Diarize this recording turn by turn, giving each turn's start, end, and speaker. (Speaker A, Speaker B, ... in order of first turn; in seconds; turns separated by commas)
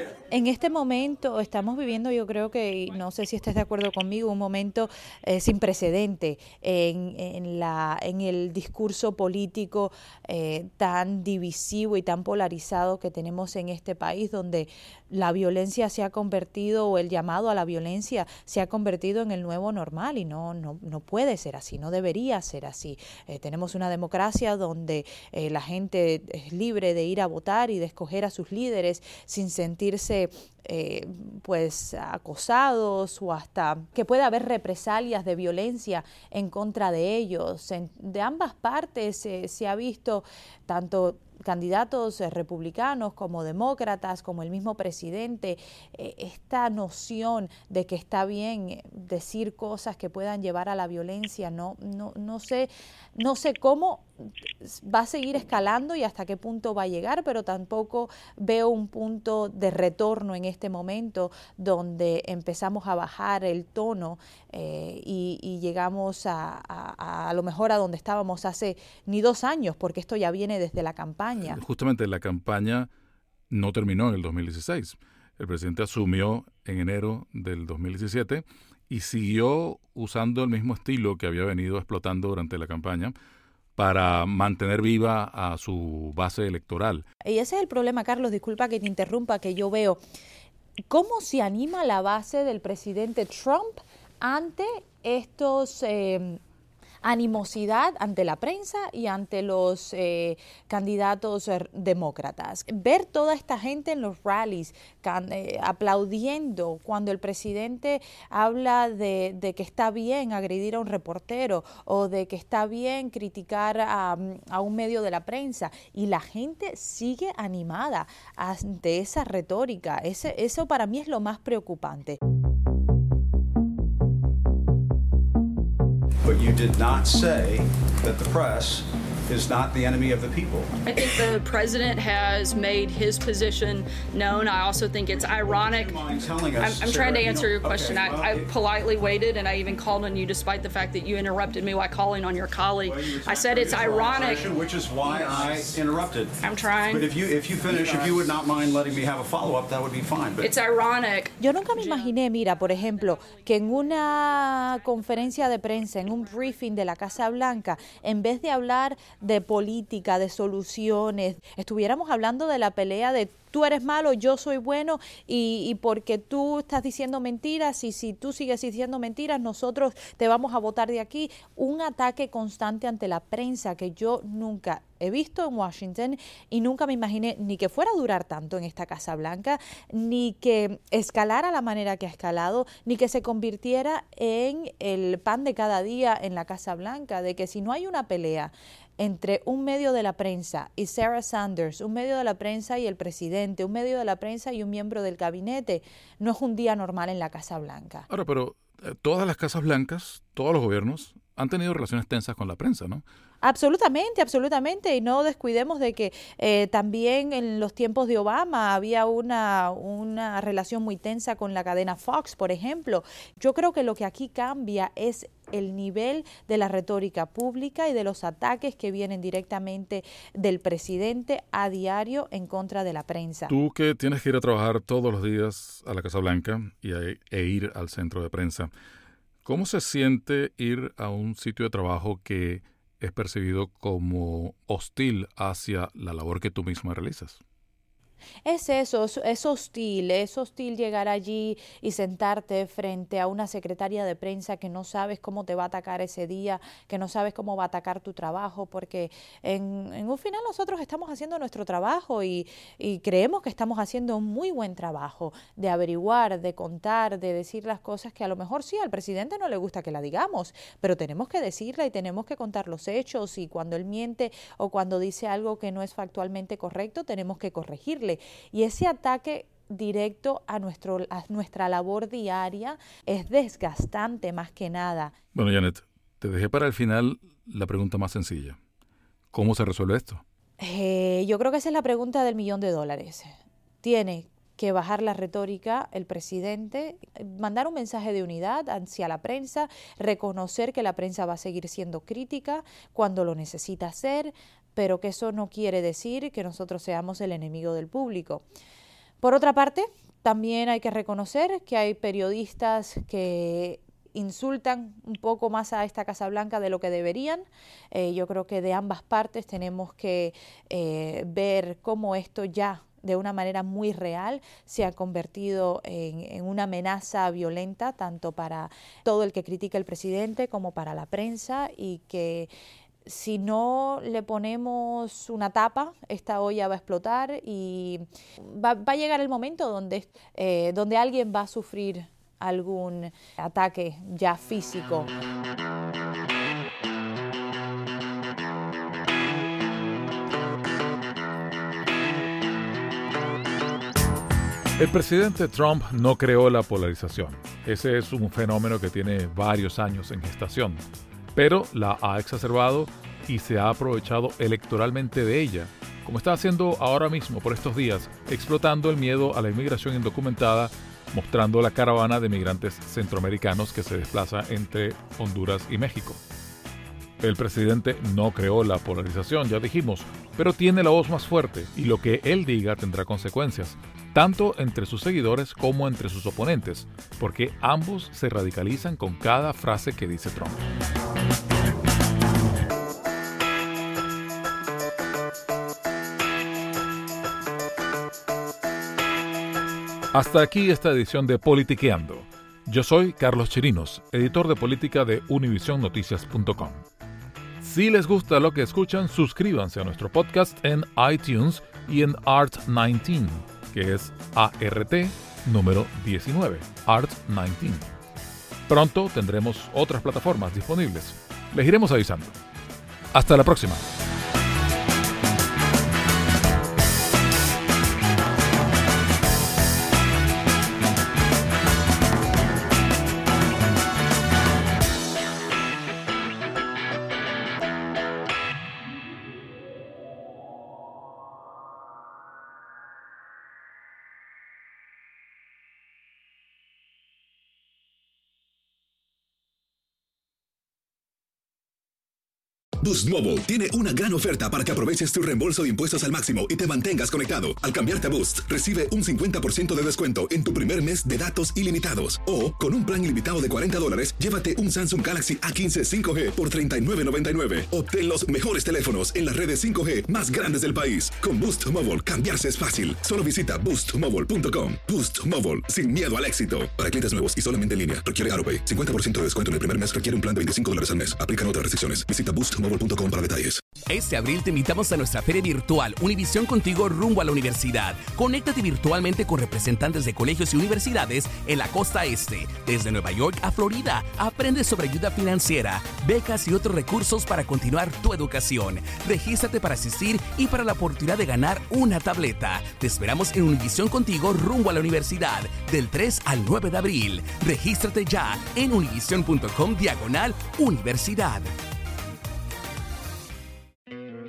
Speaker A: 0.3-54.1, Speaker A: 54.6-71.6, Speaker B: 71.5-72.9, Speaker B: 73.5-83.1, Speaker B: 83.8-87.0, Speaker A: 87.2-90.0, Speaker A: 90.9-96.4, Speaker A: 97.0-122.2, Speaker C: 126.2-130.7, Speaker D: 130.9-136.0, Speaker C: 135.1-138.5, Speaker D: 136.6-144.5, Speaker C: 142.8-150.5, Speaker D: 146.4-147.1, Speaker D: 150.4-151.3, Speaker A: 151.4-198.1, Speaker B: 198.1-203.0, Speaker A: 203.4-223.5, Speaker B: 223.5-228.7, Speaker B: 229.4-237.4, Speaker A: 238.4-275.1, Speaker B: 275.3-278.6, Speaker B: 279.3-280.2, Speaker A: 280.6-298.4, Speaker A: 299.2-322.5, Speaker A: 323.0-335.1, Speaker B: 344.8-350.8, Speaker B: 351.3-366.2, Speaker B: 367.2-380.6, Speaker B: 390.1-396.8, Speaker B: 397.6-407.9, Speaker B: 408.7-412.4, Speaker B: 413.1-413.9, Speaker E: 442.8-473.6, Speaker F: 473.9-501.5